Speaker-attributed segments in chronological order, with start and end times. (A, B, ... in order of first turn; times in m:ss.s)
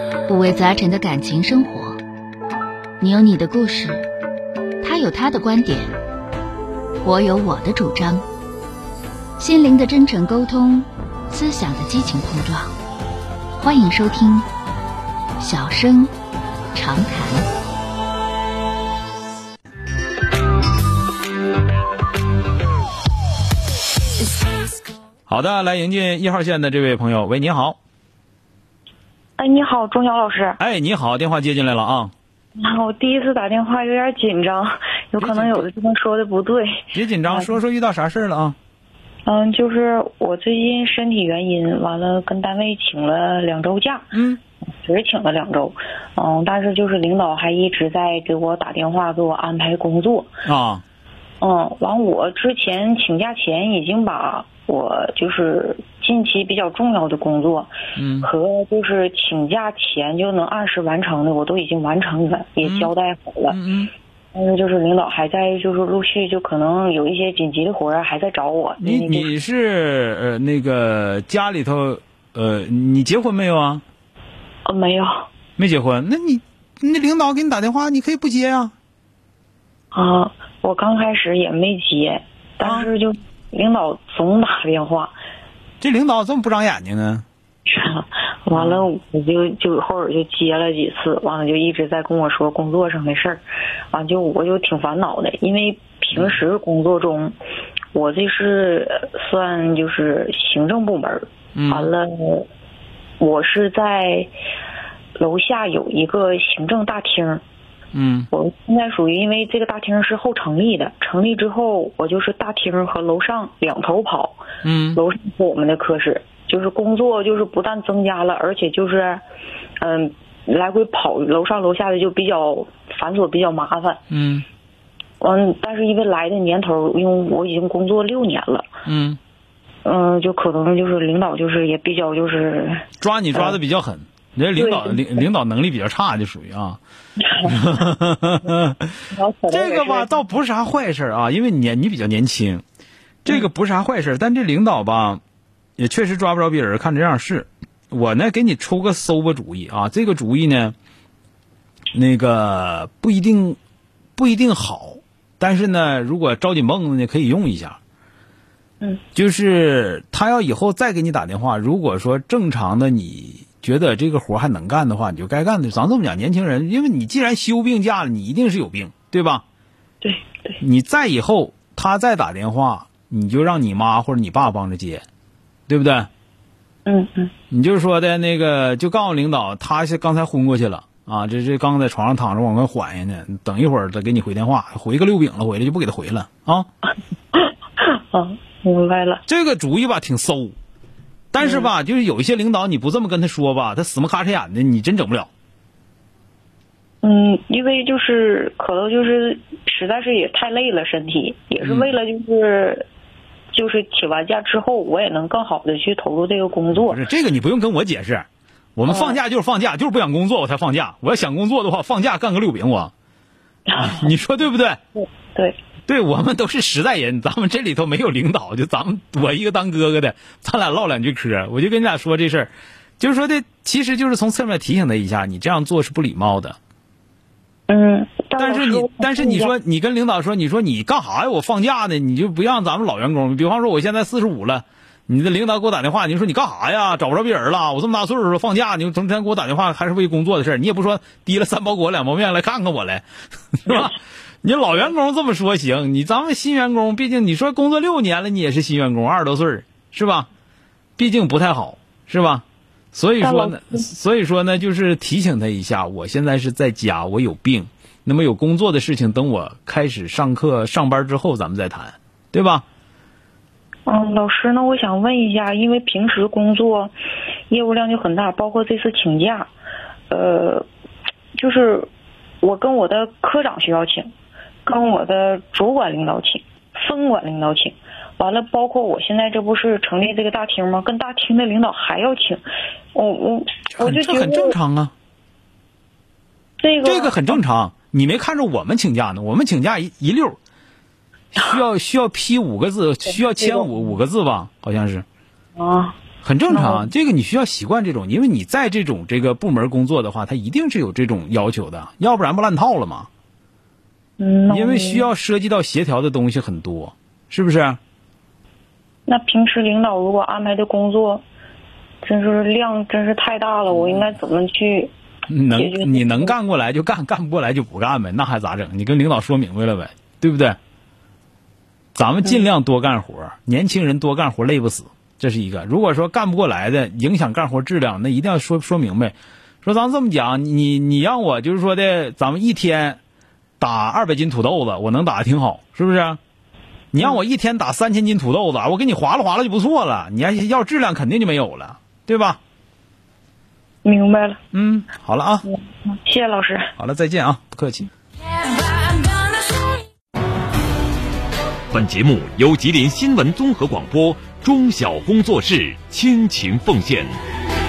0:00.3-0:02.0 A
0:03.0-0:04.0 A
0:04.8-0:06.0 A
0:07.0-0:08.2 A
0:09.4-0:12.7 A
0:13.6-0:14.4 A
0:15.4-0:16.1 A
0:16.7-0:17.4 A
0:25.3-0:27.8 B
0:29.4-0:30.6 C
0:30.6-0:32.1 B
0:32.6-0:37.5 C
0:35.2-0:35.7 B
0:36.9-0:38.6 B
0:39.2-0:44.1 C
0:44.1-0:44.4 B
0:44.8-0:50.3 C
0:50.4-0:50.8 B
0:51.4-1:03.6 C
0:58.0-0:58.3 B
1:02.6-1:02.9 B
1:03.5-1:03.9 B
1:04.3-1:09.3 C
1:08.8-1:13.8 B
1:14.6-1:15.3 C
1:15.6-1:18.7 B
1:19.9-1:25.1 C
1:22.6-1:22.9 B
1:25.8-1:27.2 B
1:27.6-1:37.4 C
1:28.5-1:28.9 B
1:36.1-1:36.4 B
1:37.9-1:42.5 C
1:41.5-1:41.9 B
1:43.2-1:44.3 C
1:45.2-1:47.4 C
1:47.9-1:48.3 B
1:48.3-1:54.4 C
1:54.6-1:55.0 B
1:54.9-1:59.2 C
1:59.8-2:04.0 C
2:04.1-2:04.4 B
2:05.2-2:08.7 C
2:08.8-2:09.2 B
2:09.8-2:13.6 C
2:13.0-2:16.8 B
2:14.6-2:15.3 C
2:17.2-2:17.9 C
2:17.4-2:18.9 B
2:19.1-2:20.1 C
2:19.5-2:22.6 B
2:23.2-2:25.2 B
2:25.8-2:30.7 B
2:31.9-2:33.6 B
2:34.2-2:37.8 B
2:39.1-2:49.4 B
2:50.0-2:50.6 C
2:50.6-2:55.0 B
2:55.7-2:56.1 B
2:56.8-2:57.3 C
2:57.5-3:06.7 B
3:07.3-3:09.2 C
3:09.3-3:10.6 B
3:11.3-3:15.3 B
3:11.4-3:11.7 C
3:17.0-3:22.8 C
3:21.6-3:21.9 B
3:23.5-3:27.0 C
3:26.7-3:32.9 B
3:28.9-3:29.2 C
3:33.7-3:34.1 C
3:33.8-3:34.8 B
3:35.0-3:35.6 C
3:35.8-3:46.6 B
3:47.7-3:49.5 C
3:48.4-4:10.3 B
4:11.0-4:22.6 B
4:13.2-4:13.8 C
4:23.9-4:26.9 C
4:27.5-4:29.5 C
4:30.1-4:30.6 C
4:31.3-4:31.9 C
4:32.4-4:34.1 C
4:34.6-4:42.4 C
4:42.9-4:44.5 C
4:43.8-4:44.9 B
4:46.6-4:47.4 C
4:46.8-4:50.4 B
4:51.3-4:55.0 B
4:53.1-4:53.9 C
4:55.6-4:56.0 C
4:56.2-5:03.1 B
4:56.5-4:56.9 C
5:04.2-5:05.1 C
5:04.5-5:07.8 B
5:09.1-5:11.2 C
5:12.0-5:14.9 C
5:15.3-5:20.6 B
5:15.5-5:16.3 C
5:21.9-5:33.0 B
5:33.6-5:36.2 B
5:36.9-5:42.4 B
5:43.8-5:44.4 C
5:44.5-5:45.4 B
5:45.4-5:46.7 C
5:46.8-5:47.9 B
5:51.7-5:57.1 D